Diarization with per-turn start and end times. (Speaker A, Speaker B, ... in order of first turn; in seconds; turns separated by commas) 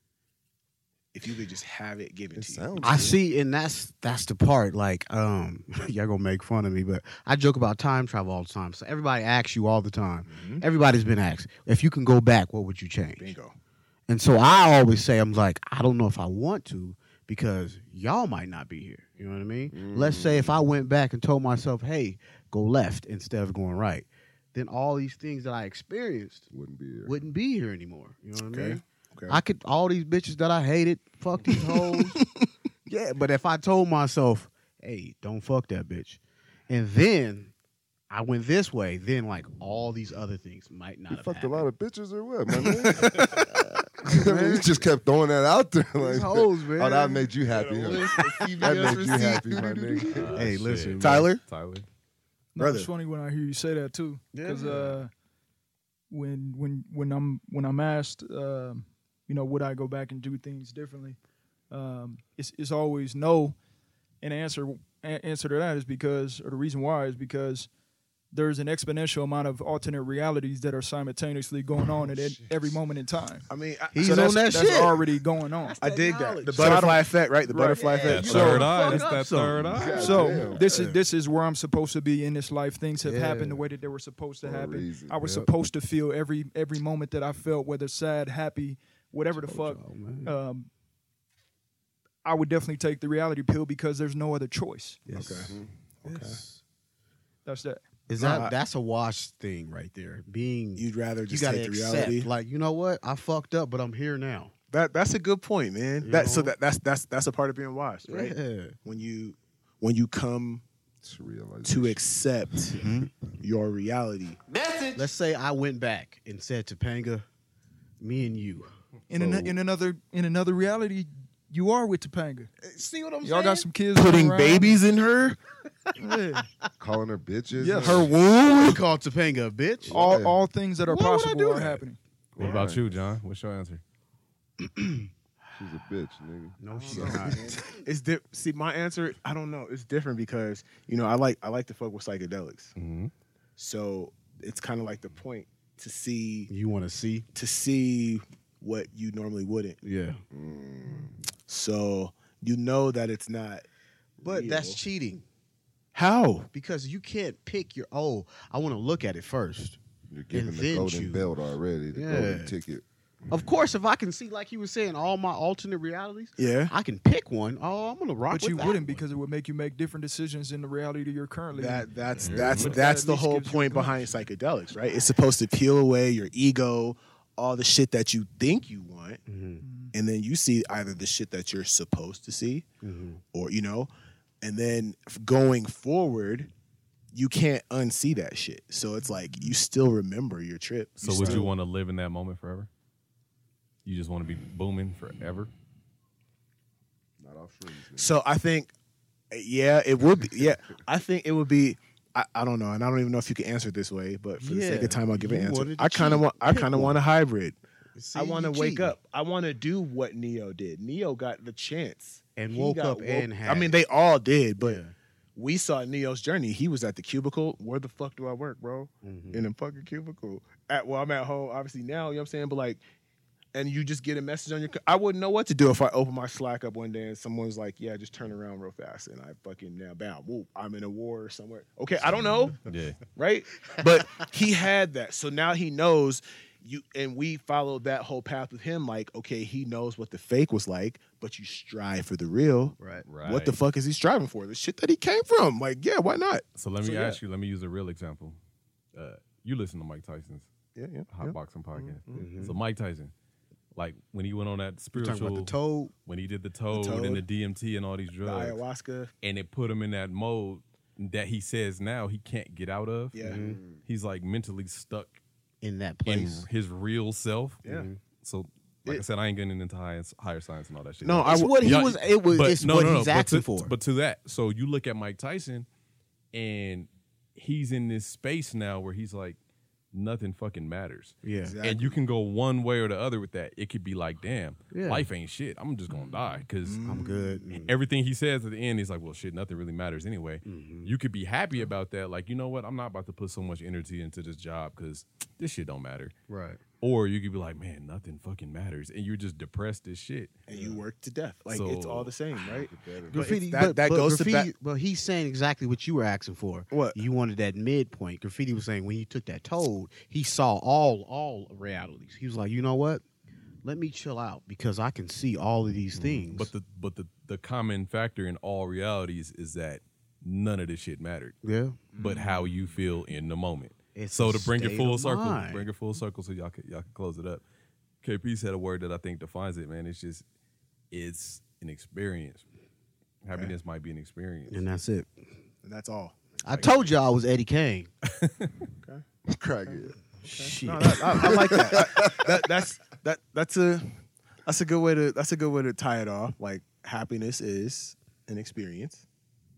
Speaker A: 1.1-2.7, Speaker B: 2.4-3.2, Speaker C: 2.8-13.3, Speaker A: 10.3-10.6, Speaker A: 13.2-13.6, Speaker C: 14.1-26.5, Speaker B: 19.7-20.6, Speaker B: 26.5-27.2, Speaker C: 27.1-32.2, Speaker A: 28.5-29.4, Speaker A: 31.5-32.5, Speaker C: 32.9-37.5, Speaker C: 38.1-41.7, Speaker B: 41.1-50.5, Speaker A: 42.6-43.5, Speaker C: 44.1-44.8, Speaker C: 46.0-47.3, Speaker A: 47.5-50.2, Speaker C: 48.0-51.3, Speaker D: 50.2-51.9, Speaker A: 51.0-51.4, Speaker E: 52.6-55.1, Speaker A: 52.6-52.9, Speaker C: 54.3-55.0, Speaker E: 56.1-61.2, Speaker E: 61.7-63.6, Speaker E: 64.2-67.7, Speaker E: 68.3-73.5, Speaker B: 72.0-72.8, Speaker A: 73.5-74.9, Speaker C: 73.9-75.0, Speaker E: 74.0-75.8, Speaker A: 75.8-78.7, Speaker C: 75.8-77.0, Speaker E: 76.5-79.2, Speaker C: 77.7-81.0, Speaker D: 78.0-80.2, Speaker B: 79.7-80.7, Speaker E: 79.8-90.7, Speaker C: 83.0-83.7, Speaker B: 84.4-85.4, Speaker C: 89.3-90.3, Speaker E: 92.2-95.0, Speaker C: 95.1-95.5, Speaker A: 95.1-96.4, Speaker B: 95.2-95.7, Speaker C: 96.1-96.6, Speaker E: 97.5-97.8, Speaker C: 98.1-104.5, Speaker A: 98.2-98.6, Speaker A: 100.8-102.3, Speaker A: 104.7-110.6, Speaker C: 106.0-106.6, Speaker C: 108.1-108.8, Speaker B: 111.0-112.0, Speaker A: 111.6-112.8, Speaker B: 112.6-112.9, Speaker C: 112.8-113.1, Speaker A: 113.4-114.4, Speaker C: 115.0-117.2, Speaker C: 118.0-118.7, Speaker E: 119.1-122.5, Speaker B: 119.1-119.6, Speaker C: 122.7-123.3, Speaker E: 123.2-124.8, Speaker A: 123.9-125.4, Speaker A: 126.0-126.4, Speaker B: 126.8-128.1, Speaker E: 127.6-128.0, Speaker C: 127.8-130.2, Speaker B: 129.8-130.4, Speaker E: 129.9-132.0, Speaker C: 130.9-131.8, Speaker B: 132.3-133.2, Speaker D: 132.4-133.8, Speaker C: 134.6-135.1, Speaker B: 135.6-137.6, Speaker C: 136.6-137.7, Speaker A: 136.9-142.7, Speaker D: 142.8-143.1, Speaker A: 143.6-146.5, Speaker C: 146.5-147.3, Speaker A: 147.3-149.8, Speaker C: 149.8-150.2, Speaker B: 150.3-151.2, Speaker A: 151.5-153.7, Speaker A: 154.2-154.8, Speaker C: 154.2-155.2, Speaker A: 155.9-156.5, Speaker C: 156.5-159.8, Speaker B: 160.1-162.8, Speaker C: 160.3-161.3, Speaker C: 161.9-162.5, Speaker C: 163.3-169.0, Speaker A: 166.4-166.7, Speaker E: 168.3-174.1, Speaker A: 171.5-179.2, Speaker B: 172.2-172.7, Speaker D: 172.3-172.6, Speaker C: 172.3-172.6, Speaker C: 174.9-175.1, Speaker C: 179.3-179.6, Speaker E: 179.6-179.9, Speaker A: 179.9-182.7, Speaker C: 182.8-183.2, Speaker A: 183.3-183.9, Speaker A: 184.4-186.5, Speaker A: 187.1-191.5, Speaker D: 191.0-192.7, Speaker B: 191.2-191.5, Speaker D: 193.8-195.5, Speaker B: 197.2-198.2, Speaker A: 198.0-198.7, Speaker A: 199.3-207.6, Speaker C: 204.4-207.0, Speaker C: 207.9-208.9, Speaker A: 208.2-214.8, Speaker C: 212.4-213.8, Speaker C: 214.6-214.9, Speaker A: 215.3-222.8, Speaker C: 219.0-219.5, Speaker A: 223.5-232.6, Speaker D: 232.7-233.1, Speaker A: 233.2-247.2, Speaker C: 242.8-243.1, Speaker D: 243.1-243.6, Speaker D: 246.6-248.4, Speaker D: 248.9-250.5, Speaker A: 250.8-252.3, Speaker D: 251.1-253.1, Speaker C: 252.2-252.6, Speaker D: 253.8-255.5, Speaker C: 254.9-255.9, Speaker D: 256.1-258.6, Speaker A: 256.7-257.2, Speaker A: 258.2-259.1, Speaker D: 259.2-265.2, Speaker A: 263.1-263.4, Speaker C: 263.2-263.6, Speaker B: 263.3-263.8, Speaker C: 265.6-266.5, Speaker D: 266.1-267.6, Speaker A: 267.6-267.9, Speaker C: 267.7-268.0, Speaker D: 268.2-275.7, Speaker A: 271.0-271.6, Speaker C: 271.3-273.7, Speaker D: 276.3-279.4, Speaker D: 279.9-286.8, Speaker C: 281.2-281.6, Speaker A: 281.4-282.0, Speaker C: 284.7-285.1, Speaker A: 286.6-287.4, Speaker C: 286.9-287.7, Speaker D: 287.5-296.1, Speaker C: 290.4-290.9, Speaker C: 296.3-296.6, Speaker D: 296.8-300.4, Speaker A: 300.5-304.5, Speaker D: 301.5-302.1, Speaker B: 302.5-303.4, Speaker C: 303.1-313.0, Speaker A: 306.7-307.0, Speaker C: 313.6-316.5, Speaker D: 316.0-321.4, Speaker C: 321.4-321.9, Speaker A: 321.9-322.6, Speaker D: 322.0-327.4, Speaker C: 323.9-325.7, Speaker D: 328.0-330.2, Speaker D: 330.9-332.4, Speaker D: 333.2-334.6, Speaker C: 334.5-335.2, Speaker A: 335.6-336.9, Speaker C: 336.4-337.9, Speaker D: 338.1-338.6, Speaker B: 339.3-340.0, Speaker C: 340.2-341.5, Speaker A: 340.3-349.1, Speaker B: 341.1-342.4